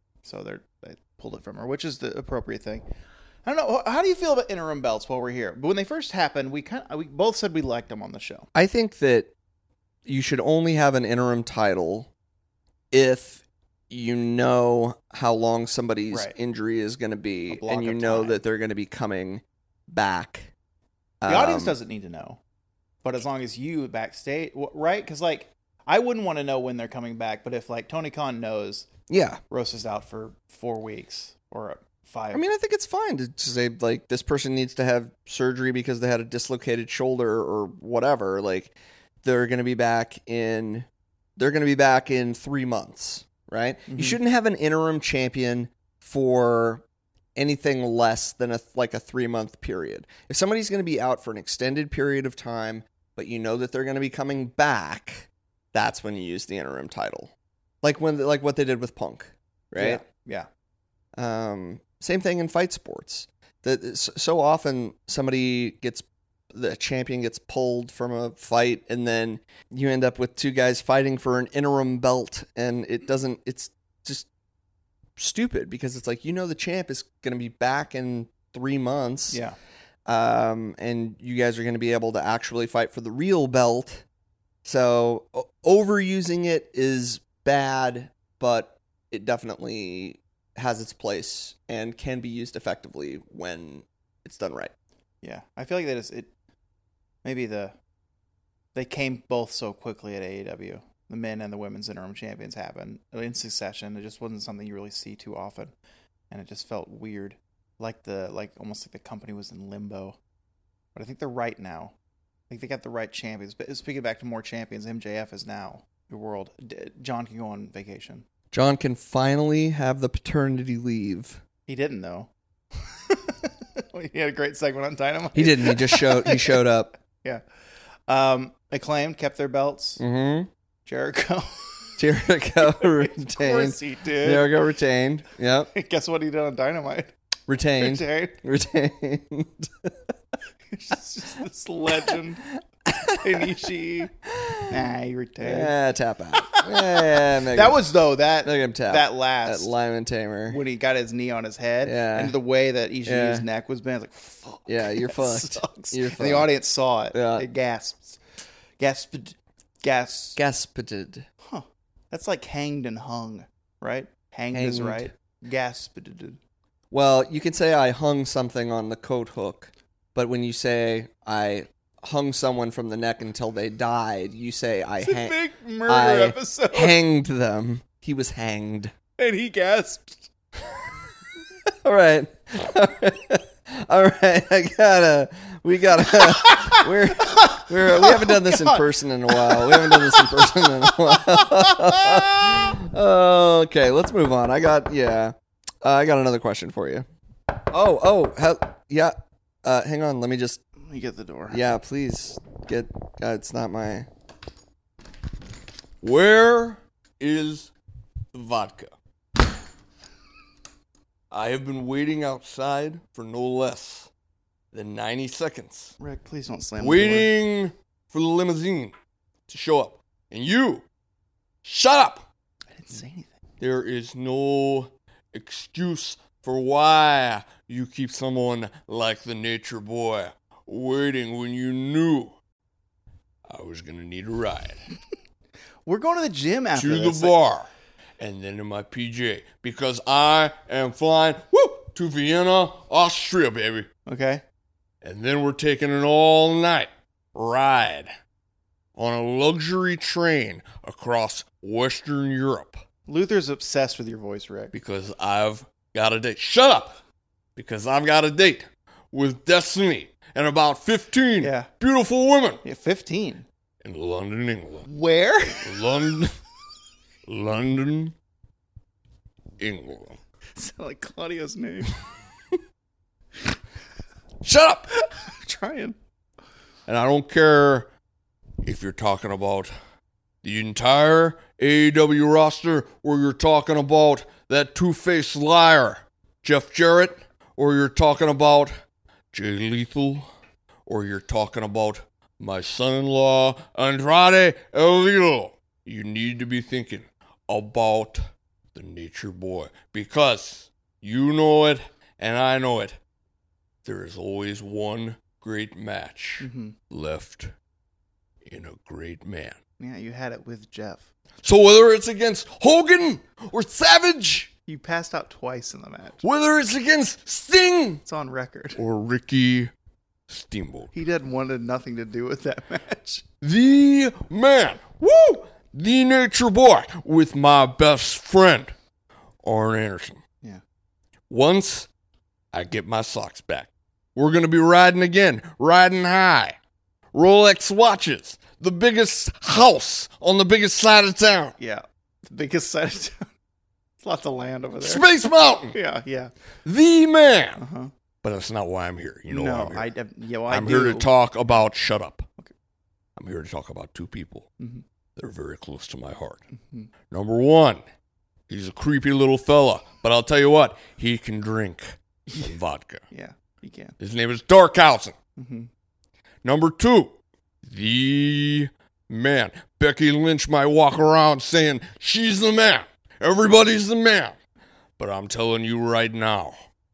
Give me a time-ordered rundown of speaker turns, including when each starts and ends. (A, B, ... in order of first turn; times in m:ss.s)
0:00.2-0:02.8 A
0:03.4-0:08.5 A
0:08.5-0:09.3 B
0:10.0-0:12.1 B
0:12.9-0:20.5 B
0:17.5-0:18.4 A
0:21.2-0:21.8 B
0:21.2-0:22.4 A
0:23.0-0:28.9 A
0:29.1-0:29.4 B
0:29.5-0:32.4 A
0:32.3-0:46.8 B
0:43.9-0:44.2 A
0:47.4-1:00.0 B
0:59.8-1:00.5 A
1:01.2-1:14.3 B
1:15.2-1:19.4 B
1:19.3-1:19.6 A
1:20.0-1:24.0 B
1:24.6-1:34.7 B
1:35.2-1:36.3 A
1:37.2-1:37.7 A
1:38.7-1:45.7 A
1:46.3-1:50.2 A
1:50.9-1:51.9 A
1:52.5-1:58.2 A
1:58.5-2:01.4 B
2:01.7-2:06.6 A
2:05.3-2:06.9 B
2:07.2-2:07.4 A
2:08.1-2:10.0 A
2:10.0-2:10.5 B
2:10.8-2:11.6 A
2:12.0-2:15.7 B
2:12.6-2:14.6 A
2:15.7-2:17.1 A
2:17.5-2:20.1 B
2:17.8-2:18.4 A
2:20.7-2:22.4 A
2:22.8-2:23.4 B
2:23.2-2:24.1 A
2:24.2-2:24.8 B
2:24.7-2:25.7 A
2:25.4-2:30.6 B
2:26.4-2:29.7 A
2:30.5-2:38.2 A
2:31.8-2:32.3 B
2:33.0-2:33.4 B
2:34.7-2:36.5 B
2:37.1-2:37.4 B
2:38.8-2:40.4 A
2:40.4-2:41.2 B
2:41.4-2:46.4 A
2:44.5-2:45.1 B
2:46.9-2:58.9 B
2:55.0-2:57.0 A
2:59.2-3:00.3 A
3:01.7-3:17.0 B
3:06.1-3:12.5 A
3:17.7-3:20.6 B
3:20.8-3:21.6 A
3:21.5-3:24.1 B
3:26.0-3:27.7 C
3:28.3-3:28.9 C
3:31.3-3:34.1 C
3:34.7-3:35.9 C
3:36.0-3:37.3 A
3:36.8-3:38.9 C
3:39.5-3:40.8 C
3:41.6-3:42.2 C
3:42.7-3:43.3 A
3:43.6-3:52.3 C
3:53.5-3:54.8 C
3:55.8-3:57.3 A
3:56.7-4:03.9 C
4:04.0-4:04.4 A
4:05.0-4:08.1 C
4:09.0-4:12.8 C
4:13.1-4:14.7 A
4:14.7-4:17.0 C
4:17.6-4:22.6 C
4:21.4-4:21.7 A
4:22.6-4:23.4 A
4:23.8-4:24.9 C
4:24.8-4:25.8 A
4:25.6-4:26.4 C
4:27.2-4:28.1 C
4:29.6-4:30.2 C
4:30.6-4:32.0 A
4:34.4-4:34.9 C
4:35.0-4:36.0 A
4:36.9-4:37.9 C
4:38.6-4:39.7 C
4:40.4-4:48.8 C
4:49.3-4:50.3 C
4:50.8-5:03.0 C
5:03.8-5:07.5 C
5:06.4-5:06.7 A
5:08.4-5:09.6 C
5:09.8-5:11.1 A
5:11.4-5:14.5 C
5:14.7-5:16.2 A
5:16.2-5:18.0 C
5:18.0-5:18.8 A
5:18.8-5:19.7 C
5:20.3-5:20.9 C
5:20.9-5:23.2 A
5:23.4-5:28.7 C
5:29.4-5:30.2 C
5:31.3-5:31.9 C
5:32.5-5:36.6 C
5:37.1-5:41.5 C
5:41.6-5:43.3 A
5:44.0-5:45.0 A
5:44.8-5:45.8 C
5:45.7-5:46.3 A
5:46.6-5:47.6 C
5:47.6-5:47.9 A
5:48.2-5:49.9 C
5:49.3-5:51.1 A
5:50.5-5:52.3 C
5:53.2-5:54.5 C
5:55.2-5:56.4 C
5:57.1-5:57.8 C
5:58.5-6:03.0 C
6:03.1-6:03.9 A
6:04.0-6:05.2 C
6:05.4-6:05.7 A
6:06.4-6:14.4 C
6:15.0-6:16.6 C